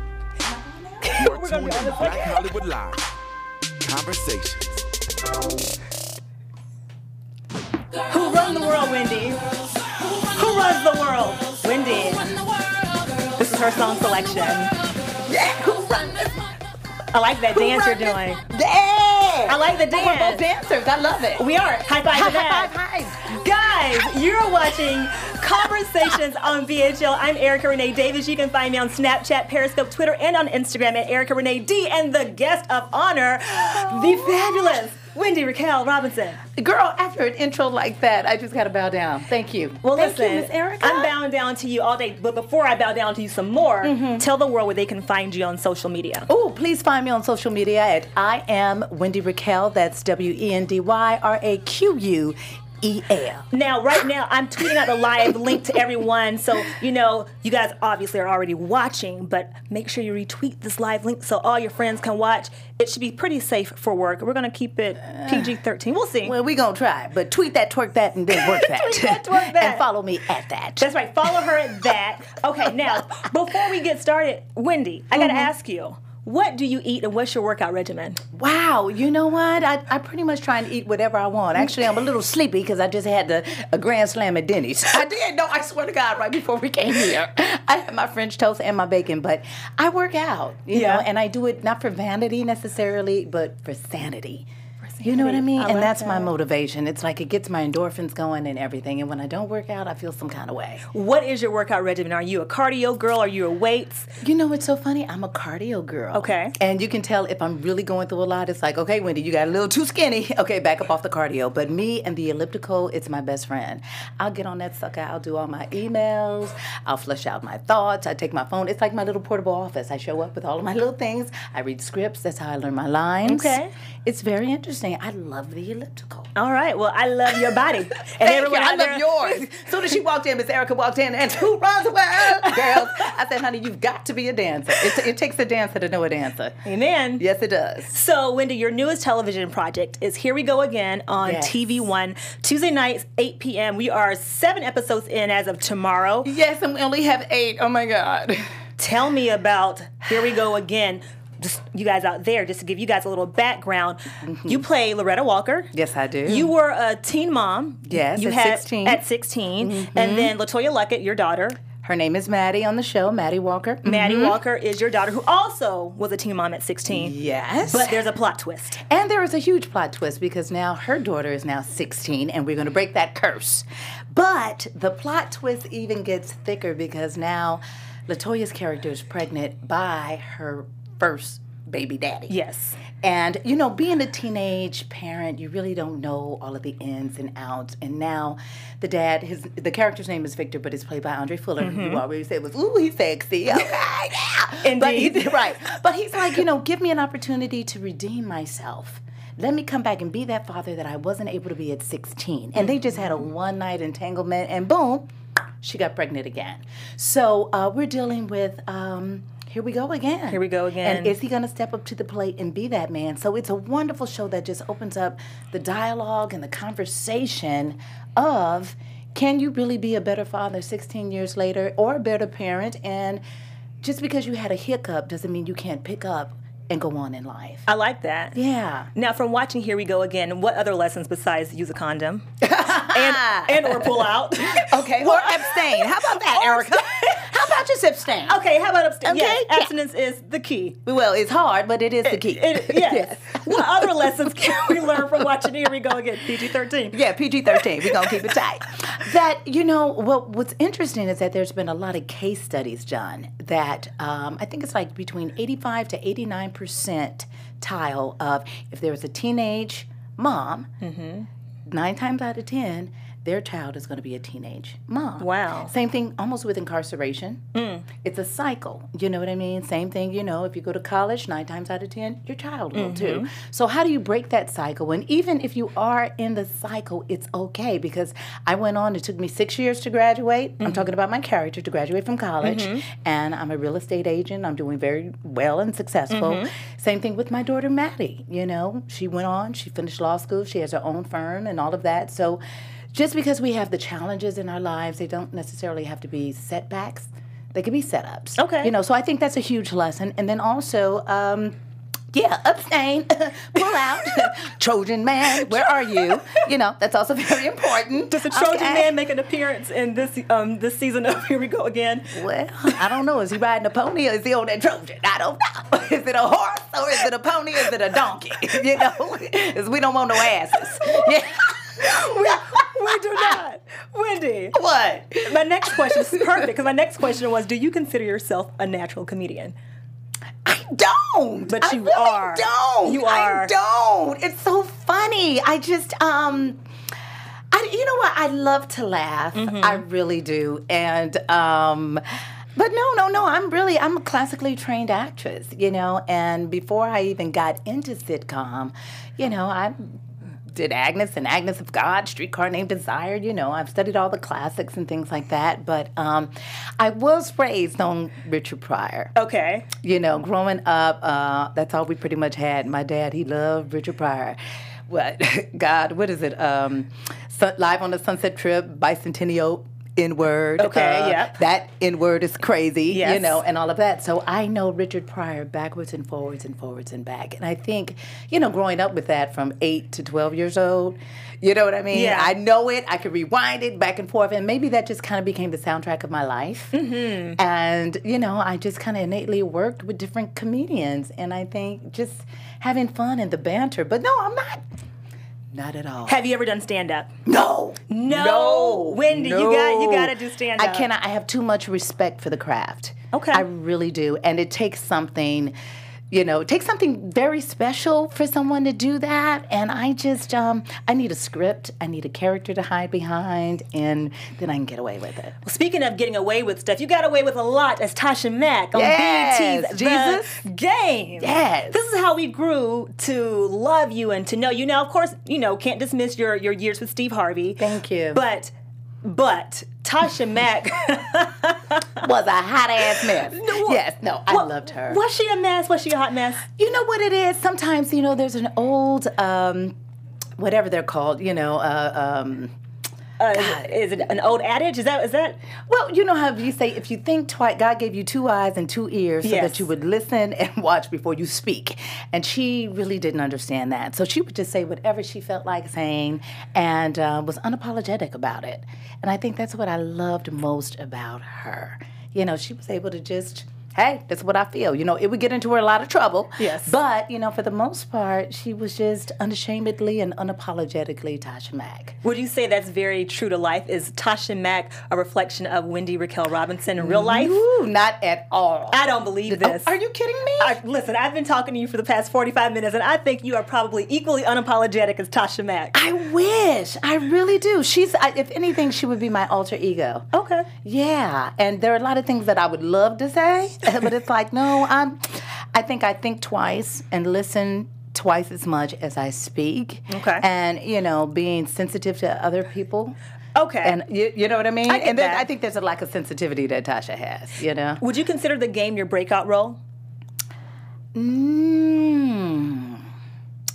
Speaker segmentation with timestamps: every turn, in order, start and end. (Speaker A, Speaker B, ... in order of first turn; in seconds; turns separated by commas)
Speaker A: 0.4-1.3, Speaker B: 1.0-2.5, Speaker C: 1.1-3.0, Speaker C: 3.8-4.8, Speaker B: 8.1-9.4, Speaker B: 10.2-12.3, Speaker B: 13.4-14.7, Speaker A: 15.2-16.4, Speaker B: 17.1-18.4, Speaker A: 17.5-21.5, Speaker B: 19.4-20.4, Speaker B: 21.4-22.7, Speaker A: 22.1-23.4, Speaker B: 23.2-36.4, Speaker A: 33.6-34.8, Speaker A: 36.5-41.1, Speaker B: 39.8-46.3, Speaker A: 43.8-44.2, Speaker A: 46.3-53.5, Speaker B: 53.5-66.3, Speaker A: 65.2-65.5, Speaker A: 66.2-70.9, Speaker B: 68.3-69.8, Speaker B: 70.8-78.2, Speaker A: 75.1-75.5, Speaker A: 78.3-94.5, Speaker B: 90.7-91.0, Speaker B: 94.9-96.3, Speaker A: 95.0-100.8, Speaker B: 100.9-104.1, Speaker A: 104.2-126.3, Speaker B: 106.1-106.5, Speaker B: 123.2-123.7, Speaker B: 126.3-129.4, Speaker A: 127.5-136.6, Speaker B: 136.6-137.2, Speaker A: 137.2-137.9, Speaker B: 137.9-146.3, Speaker A: 141.2-141.8, Speaker A: 146.2-148.5, Speaker B: 148.8-155.7, Speaker A: 154.2-154.6, Speaker A: 155.7-156.5, Speaker B: 156.2-161.6, Speaker A: 157.9-159.0, Speaker A: 159.6-160.3, Speaker A: 161.8-164.4, Speaker B: 163.8-168.8, Speaker A: 166.9-167.9, Speaker A: 168.8-182.3, Speaker B: 182.3-182.8, Speaker A: 182.9-205.1, Speaker B: 191.6-192.0, Speaker B: 194.6-195.3, Speaker A: 205.6-223.2, Speaker B: 210.3-211.2, Speaker A: 223.8-227.7, Speaker B: 227.7-228.4, Speaker A: 228.3-228.9, Speaker B: 228.9-237.3, Speaker A: 232.4-238.4, Speaker B: 238.3-240.8, Speaker A: 239.0-239.7, Speaker A: 240.8-245.7, Speaker B: 242.0-247.0, Speaker A: 246.9-260.7, Speaker B: 247.5-248.2, Speaker B: 260.8-261.3, Speaker A: 261.7-267.4, Speaker B: 265.2-265.7, Speaker B: 267.5-267.9, Speaker A: 267.9-292.4, Speaker B: 272.7-273.3, Speaker B: 280.6-280.9, Speaker B: 282.4-282.8, Speaker B: 286.1-286.5, Speaker A: 292.9-301.6, Speaker B: 298.4-298.7, Speaker A: 302.1-308.9, Speaker B: 305.6-306.4, Speaker B: 308.1-312.1, Speaker A: 312.1-323.4, Speaker B: 321.8-324.6, Speaker A: 324.5-326.5, Speaker B: 325.2-329.5, Speaker A: 330.4-336.6, Speaker B: 331.5-333.5, Speaker A: 337.5-342.0, Speaker B: 339.3-339.8, Speaker A: 342.6-359.1, Speaker B: 359.1-359.7, Speaker A: 359.8-364.4, Speaker A: 364.9-386.7, Speaker B: 370.6-371.4, Speaker B: 372.9-373.4, Speaker B: 381.9-382.3, Speaker B: 386.7-387.4, Speaker A: 387.4-394.6, Speaker A: 395.5-396.2, Speaker B: 396.1-397.1, Speaker A: 397.2-405.5, Speaker B: 397.9-400.9, Speaker B: 403.1-403.4, Speaker A: 406.1-415.3, Speaker B: 415.4-432.0, Speaker A: 418.7-420.4, Speaker A: 421.2-421.8, Speaker A: 427.6-428.2, Speaker A: 432.0-435.0, Speaker B: 432.9-436.4, Speaker A: 436.5-439.8, Speaker A: 440.4-442.5, Speaker B: 443.2-445.4, Speaker A: 443.3-443.6, Speaker A: 445.6-471.9, Speaker B: 449.2-449.7, Speaker B: 466.4-466.8, Speaker B: 472.0-477.4, Speaker A: 476.8-480.6, Speaker B: 478.7-479.7, Speaker B: 480.4-485.8, Speaker A: 485.7-490.1, Speaker B: 490.1-490.5, Speaker A: 490.6-502.9, Speaker B: 499.9-500.2, Speaker B: 503.3-503.8, Speaker A: 503.6-507.8, Speaker B: 504.7-505.2, Speaker B: 507.8-509.6, Speaker A: 510.9-512.9